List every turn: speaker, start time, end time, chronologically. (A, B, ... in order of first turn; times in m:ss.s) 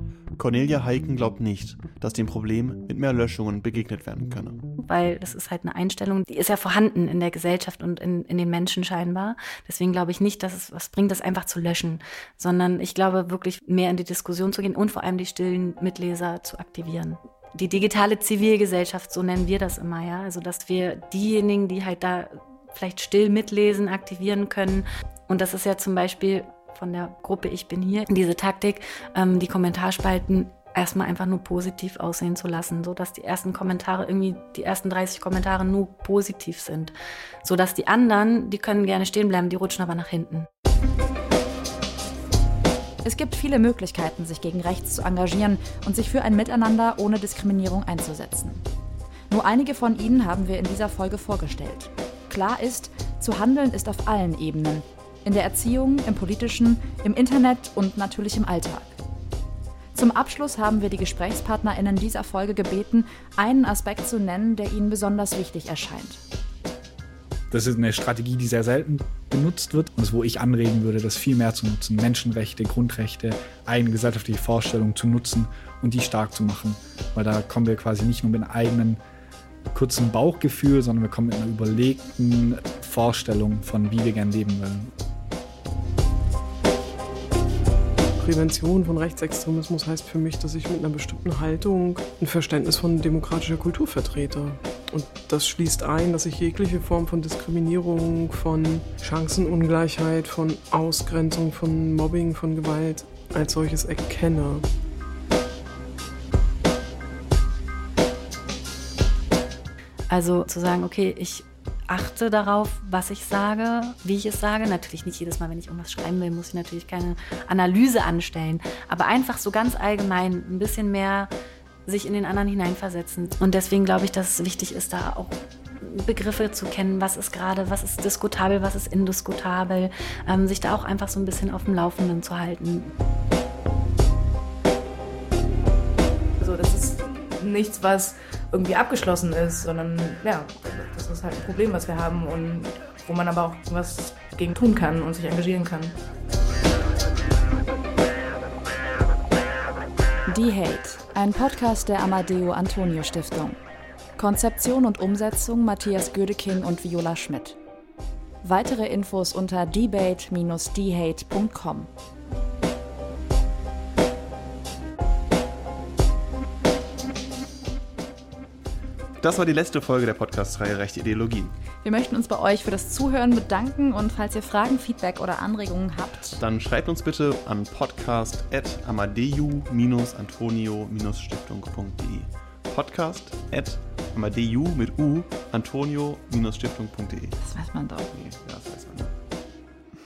0:00.4-0:04.6 A
0:04.8-0:40.5 B
0:43.0-0:48.6 C
0:49.3-0:59.0 C
0:59.9-1:06.2 C
1:07.5-1:19.0 D
1:19.7-1:24.9 D
1:28.2-1:44.6 E
1:50.1-2:01.3 B
2:01.8-2:12.9 B
2:16.4-2:26.0 F
2:30.3-2:33.6 C
2:34.2-2:37.6 C
2:38.4-2:41.9 C
2:49.2-2:51.5 A
2:51.8-2:56.4 C
2:56.4-3:07.4 A
3:07.4-3:08.1 C